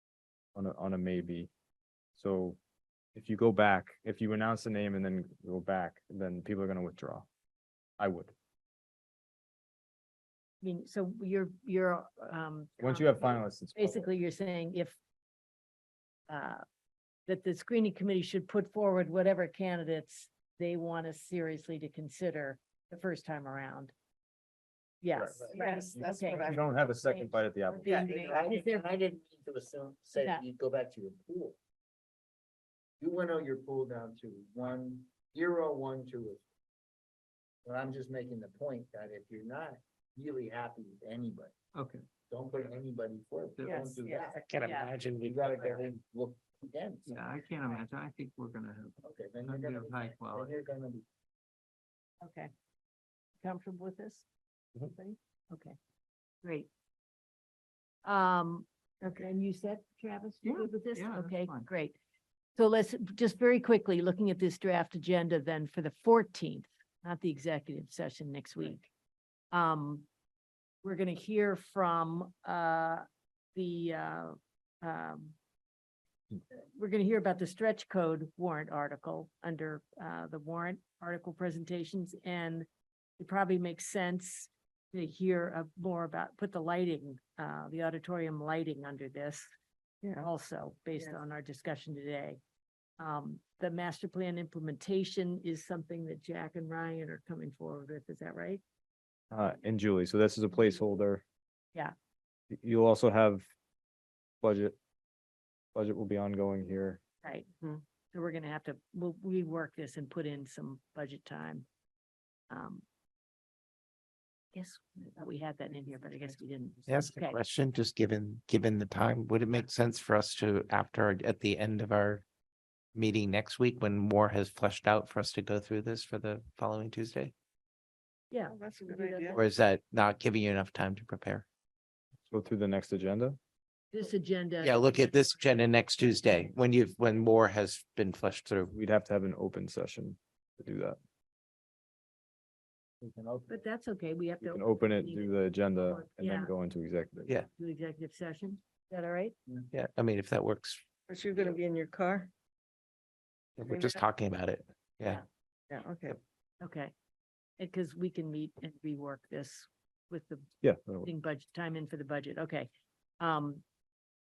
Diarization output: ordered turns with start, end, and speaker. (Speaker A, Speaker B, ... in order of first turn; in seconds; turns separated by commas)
Speaker A: 0.5-1.5, Speaker A: 2.1-2.6, Speaker A: 3.1-7.3, Speaker A: 8.0-8.3, Speaker B: 10.6-15.0, Speaker A: 12.8-14.1, Speaker B: 16.3-16.6, Speaker B: 17.2-23.9, Speaker B: 25.0-26.4, Speaker A: 25.1-25.4, Speaker C: 25.4-26.4, Speaker D: 25.5-26.6, Speaker A: 26.4-27.9, Speaker B: 27.0-28.8, Speaker C: 27.8-31.6, Speaker D: 27.9-28.3, Speaker B: 30.1-30.4, Speaker C: 33.0-36.4, Speaker C: 37.6-41.5, Speaker E: 41.7-42.0, Speaker C: 42.3-44.5, Speaker E: 43.6-44.0, Speaker B: 44.0-44.9, Speaker F: 44.2-45.8, Speaker C: 45.2-47.2, Speaker E: 47.0-50.5, Speaker C: 49.0-51.0, Speaker B: 52.2-52.5, Speaker B: 53.4-54.2, Speaker B: 54.9-55.8, Speaker B: 56.4-56.7, Speaker B: 58.0-58.7, Speaker D: 59.0-59.3, Speaker B: 59.2-61.9, Speaker E: 60.4-61.7, Speaker D: 60.5-61.0, Speaker B: 62.5-68.9, Speaker B: 69.5-70.1, Speaker B: 70.8-75.3, Speaker B: 76.5-82.7, Speaker B: 83.2-89.5, Speaker D: 90.0-90.3, Speaker B: 90.2-92.4, Speaker B: 93.0-98.6, Speaker A: 99.3-101.2, Speaker A: 102.5-103.5, Speaker A: 104.4-104.8, Speaker A: 105.7-107.0, Speaker B: 107.2-107.5, Speaker B: 108.1-111.7, Speaker B: 112.5-112.8, Speaker B: 114.5-117.3, Speaker D: 115.2-116.3, Speaker F: 116.9-122.2, Speaker F: 122.9-127.3, Speaker B: 128.3-129.3, Speaker D: 128.5-129.4, Speaker F: 129.3-131.4, Speaker A: 132.3-133.4, Speaker B: 133.9-136.2, Speaker F: 134.6-138.7, Speaker A: 138.7-141.0, Speaker C: 143.0-143.6, Speaker B: 143.5-146.5, Speaker A: 144.4-147.3, Speaker B: 147.6-149.3, Speaker F: 149.7-150.8, Speaker D: 151.1-152.3, Speaker F: 153.6-155.2, Speaker D: 153.7-154.0, Speaker D: 155.7-156.2, Speaker B: 156.6-156.9, Speaker B: 157.6-160.5, Speaker A: 160.6-161.1, Speaker B: 161.0-162.7, Speaker B: 163.2-163.6